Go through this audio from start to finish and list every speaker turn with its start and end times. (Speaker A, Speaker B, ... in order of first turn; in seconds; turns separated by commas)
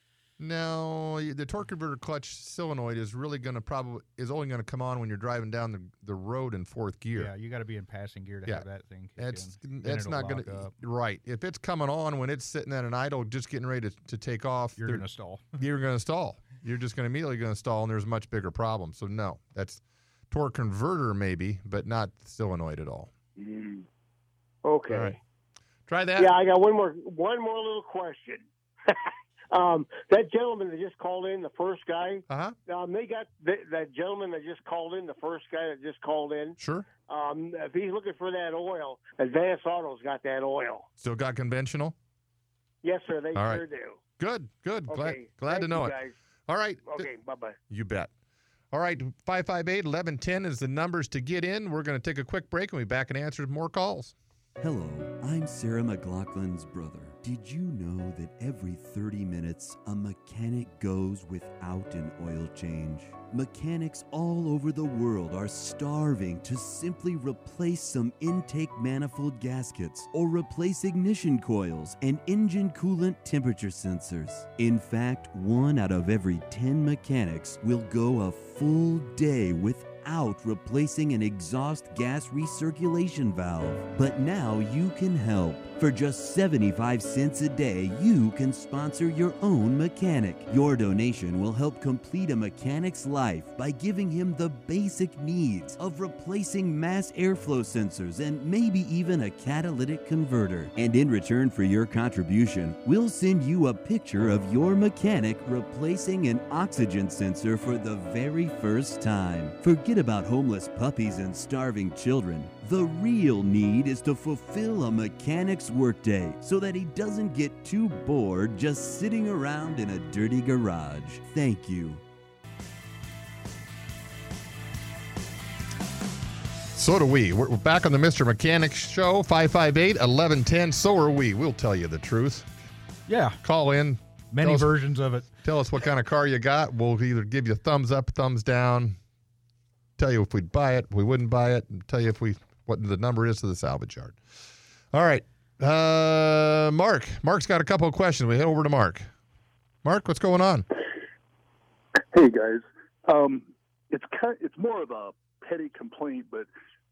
Speaker A: 0.4-7.3, Speaker B: 7.2-10.7, Speaker A: 9.2-15.1, Speaker B: 14.8-15.4, Speaker A: 15.6-23.1, Speaker C: 23.4-23.9, Speaker C: 24.6-25.2, Speaker A: 24.9-25.2, Speaker A: 25.9-26.3, Speaker C: 26.2-36.6, Speaker A: 32.3-32.6, Speaker A: 36.6-36.9, Speaker C: 37.1-40.9, Speaker A: 41.0-42.0, Speaker C: 42.8-44.0, Speaker A: 43.4-43.6, Speaker A: 44.2-46.0, Speaker C: 44.9-46.1, Speaker A: 46.5-47.1, Speaker C: 46.9-47.6, Speaker A: 47.7-48.1, Speaker A: 48.7-54.1, Speaker D: 54.6-122.0, Speaker A: 126.8-132.5, Speaker B: 133.1-133.4, Speaker A: 133.4-134.8, Speaker B: 134.3-135.3, Speaker A: 135.4-139.0, Speaker A: 140.0-144.2, Speaker A: 144.9-149.1, Speaker A: 149.8-150.7, Speaker E: 152.1-156.5